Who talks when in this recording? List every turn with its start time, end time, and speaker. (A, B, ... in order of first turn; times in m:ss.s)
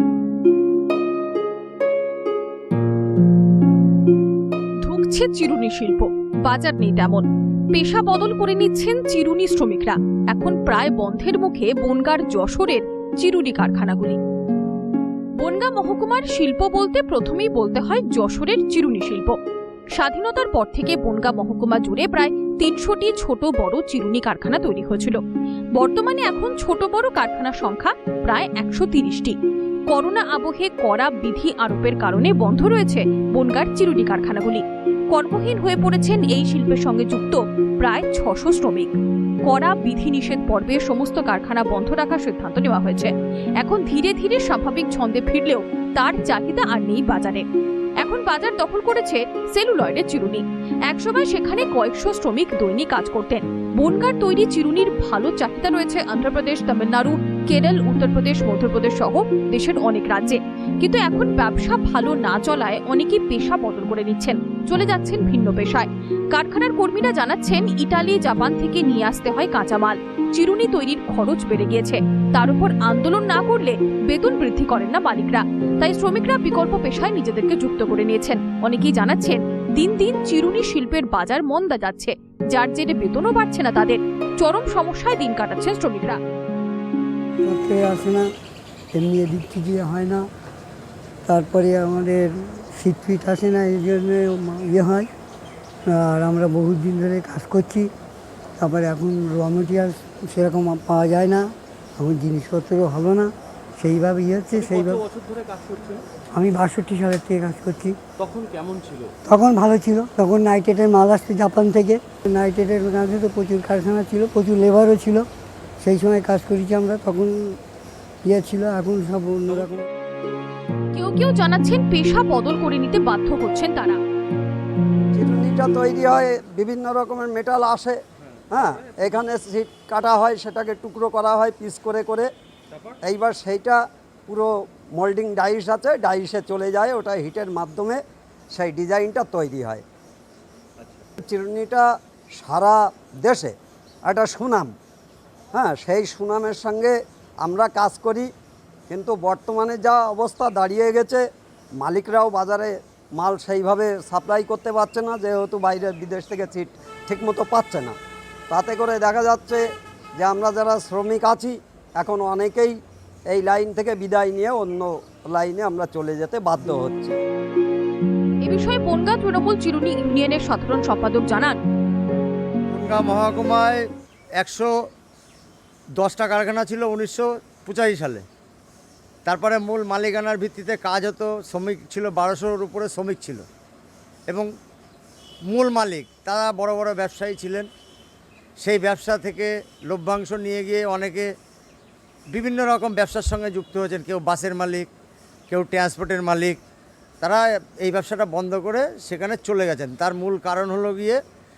0:04.8-0:14.2 A
0:15.4-0:19.4 A
0:19.9-0:25.2 A
0:25.8-0:29.4 A
0:29.9-0:38.9 A
0:39.4-0:47.4 A
0:48.0-1:26.2 A
1:27.4-1:28.3 B
1:28.9-1:30.2 B
1:31.2-1:35.1 B
1:35.9-1:37.9 B
1:38.6-1:45.0 B
1:44.5-1:46.0 C
1:46.3-1:48.0 B
1:48.2-1:49.1 C
1:49.2-1:55.2 B
1:55.8-1:57.6 B
1:58.2-1:59.8 B
2:00.9-2:04.0 A
2:05.1-2:12.3 D
2:13.0-2:18.0 D
2:18.5-2:19.8 D
2:20.8-2:21.0 C
2:21.2-2:21.9 D
2:22.4-2:23.5 D
2:24.0-2:24.7 D
2:25.5-2:28.3 D
2:28.9-2:31.2 D
2:31.8-2:38.0 D
2:38.5-2:39.6 D
2:40.2-2:42.8 D
2:43.3-2:47.2 D
2:48.4-2:51.6 A
2:52.7-2:53.8 E
2:54.4-2:54.7 E
2:56.0-2:58.2 E
2:59.2-3:03.4 E
3:05.5-3:07.7 E
3:08.6-3:11.3 E
3:12.3-3:14.9 E
3:15.5-3:16.6 E
3:17.2-3:21.2 E